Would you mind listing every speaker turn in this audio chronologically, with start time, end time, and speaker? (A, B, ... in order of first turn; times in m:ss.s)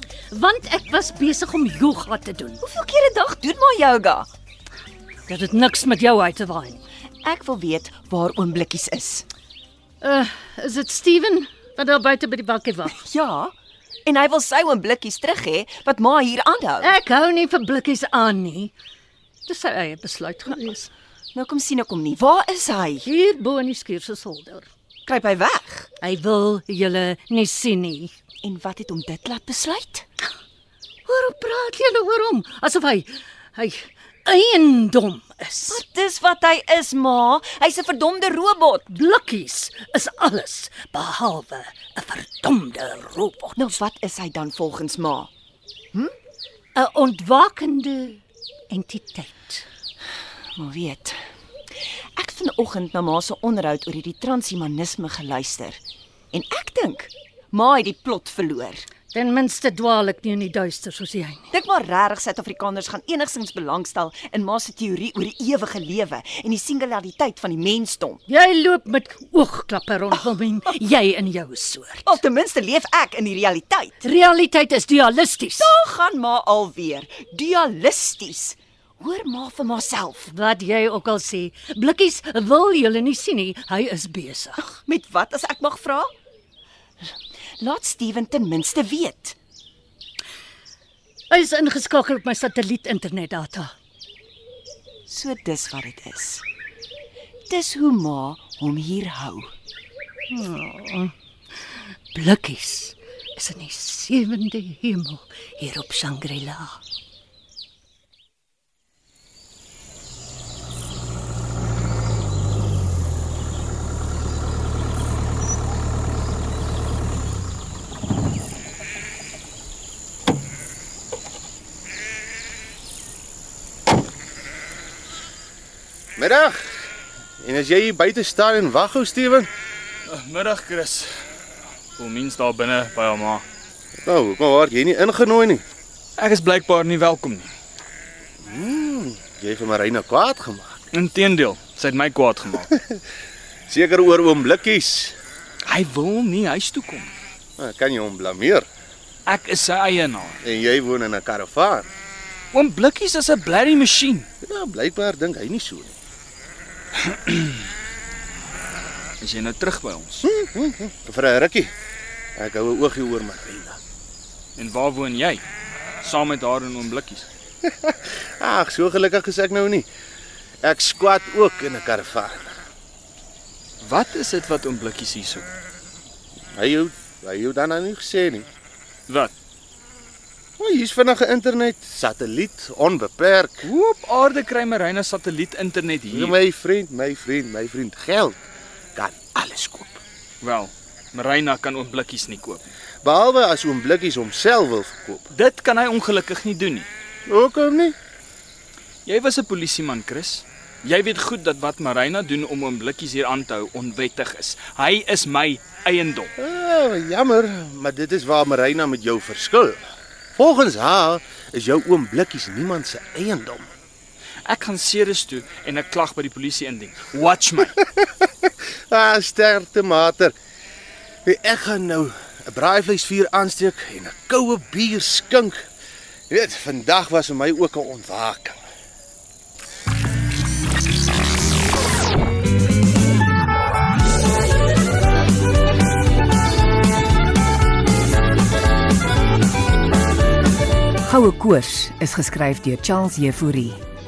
0:00.3-0:02.6 A
0:02.6-0:04.3 B
0:05.3-0:06.8 A
0:07.2-0:09.3 B
0:10.0-0:13.0 A
0:13.0-0:13.5 B
0:14.1-0:16.9 B
0:16.8-0:18.7 A
0:19.5-0:20.9 A
0:21.4-0:23.1 B
0:23.0-0:24.7 A
0:25.1-0:25.9 B
0:26.0-0:28.1 A
0:28.4-0:30.1 B
0:31.1-0:35.8 A
0:35.7-0:38.9 B
0:38.9-0:43.6 A
0:43.6-0:45.3 B
0:46.8-0:49.6 A
0:50.6-0:51.2 B
0:52.2-0:55.8 B
0:56.3-0:58.9 B
0:59.1-1:01.5 A
1:01.5-1:08.2 B
1:08.3-1:12.2 A
1:12.1-1:14.0 B
1:14.0-1:15.7 A
1:15.6-1:20.3 B
1:20.3-1:24.6 A
1:24.6-1:26.1 B
1:27.6-1:29.4 B
1:31.3-1:33.7 A
1:35.1-1:36.4 B
1:37.5-1:39.5 B
1:40.3-1:41.1 A
1:42.1-1:46.8 A
2:06.2-2:06.8 C
2:07.4-2:09.5 C
2:10.1-2:11.1 D
2:12.0-2:13.4 D
2:14.0-2:15.6 C
2:16.2-2:17.5 D
2:18.4-2:20.8 C
2:20.9-2:22.7 D
2:23.7-2:25.2 C
2:25.7-2:27.1 D
2:27.6-2:28.7 C
2:29.3-2:30.4 D
2:30.4-2:31.9 C
2:32.5-2:34.3 D
2:34.4-2:36.0 C
2:37.1-2:37.5 D
2:39.2-2:40.3 D
2:40.2-2:41.7 C
2:42.4-2:43.8 C
2:44.6-2:45.4 D
2:46.0-2:47.3 D
2:47.6-2:49.9 C
2:50.6-2:52.5 C
2:53.8-2:55.5 D
2:56.6-2:58.5 C
2:59.1-2:59.3 D
3:00.6-3:03.7 C
3:03.6-3:06.4 D
3:06.1-3:10.0 C
3:10.4-3:12.7 D
3:13.0-3:15.3 C
3:15.3-3:16.9 D
3:17.3-3:18.0 C
3:19.1-3:26.3 D
3:26.4-3:29.8 C
3:30.4-3:33.7 C
3:34.4-3:37.8 D
3:38.9-3:40.4 C
3:41.3-3:45.6 C
3:46.3-3:48.6 C
4:01.1-4:03.7 E